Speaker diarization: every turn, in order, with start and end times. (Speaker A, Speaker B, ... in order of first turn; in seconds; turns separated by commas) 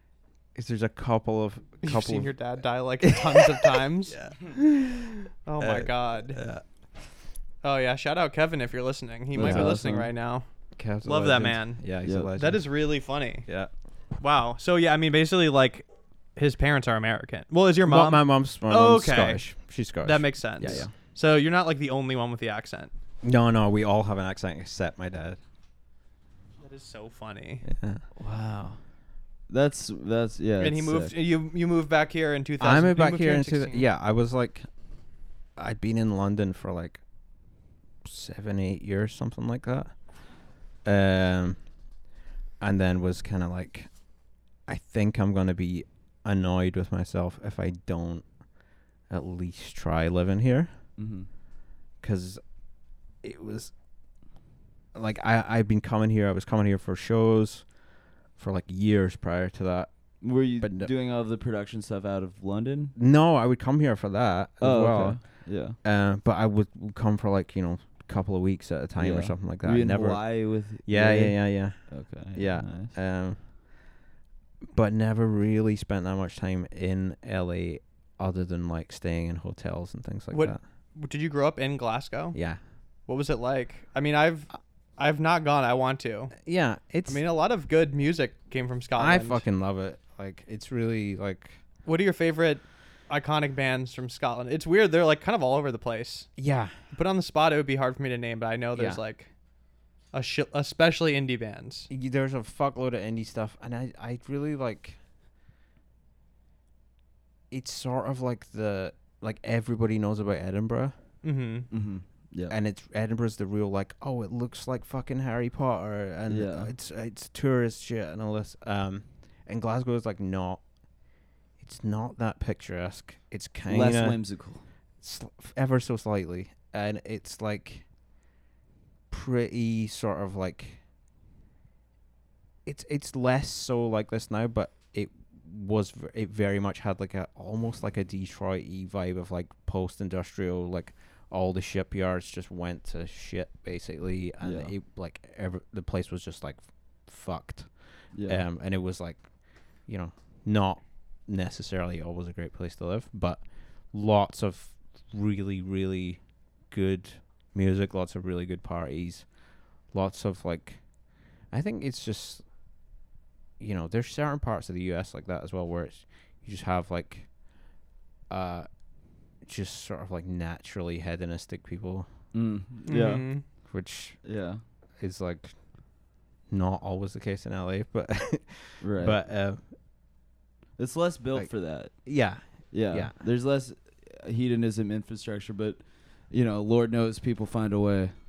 Speaker A: 0.5-2.5, Speaker B: 1.8-6.4, Speaker A: 3.0-4.5, Speaker A: 5.6-6.6, Speaker B: 7.6-10.4, Speaker C: 9.3-10.1, Speaker A: 9.4-9.8, Speaker A: 10.8-12.6, Speaker B: 11.0-13.5, Speaker C: 12.0-12.3, Speaker A: 13.4-13.7, Speaker B: 14.2-15.8, Speaker B: 16.4-19.5, Speaker A: 17.8-20.9, Speaker B: 20.0-22.9, Speaker A: 23.2-25.4, Speaker B: 26.6-27.6, Speaker A: 27.6-28.8, Speaker C: 29.5-31.1, Speaker B: 30.6-33.9, Speaker A: 32.6-34.7, Speaker A: 35.6-37.0, Speaker A: 38.0-39.9, Speaker A: 40.8-41.6, Speaker A: 42.6-43.9, Speaker A: 44.7-48.2, Speaker A: 49.1-50.7, Speaker C: 51.0-51.3, Speaker A: 52.0-52.4, Speaker A: 53.2-53.7, Speaker A: 54.9-57.7, Speaker A: 58.4-60.9, Speaker C: 60.2-62.9, Speaker A: 63.0-73.4, Speaker C: 64.6-65.8, Speaker C: 69.0-72.9, Speaker A: 74.7-80.6, Speaker B: 80.3-82.4, Speaker A: 82.3-82.6, Speaker B: 83.1-86.4, Speaker A: 86.4-87.2, Speaker B: 87.1-89.4, Speaker A: 89.0-91.6, Speaker B: 91.8-96.3, Speaker A: 96.4-96.7, Speaker B: 96.9-99.3, Speaker A: 98.7-99.0, Speaker B: 100.1-101.9, Speaker A: 101.9-105.0, Speaker A: 107.5-111.0, Speaker B: 111.2-111.7, Speaker C: 111.7-112.5, Speaker A: 112.5-120.6, Speaker C: 116.3-116.7, Speaker A: 121.6-124.2, Speaker C: 123.7-124.6, Speaker A: 125.0-127.8, Speaker A: 129.1-130.8, Speaker A: 132.7-149.2, Speaker C: 144.4-144.7, Speaker C: 148.1-148.4, Speaker A: 149.8-159.3, Speaker A: 159.9-160.8, Speaker A: 161.5-162.4, Speaker A: 163.6-167.3, Speaker A: 168.3-168.7, Speaker A: 169.4-172.1, Speaker C: 172.3-173.3, Speaker B: 172.9-173.4, Speaker A: 173.7-174.2, Speaker C: 174.2-174.6, Speaker A: 175.0-175.5, Speaker A: 176.5-179.6, Speaker C: 178.8-179.2, Speaker C: 180.8-181.9, Speaker A: 181.3-183.1, Speaker C: 182.7-188.1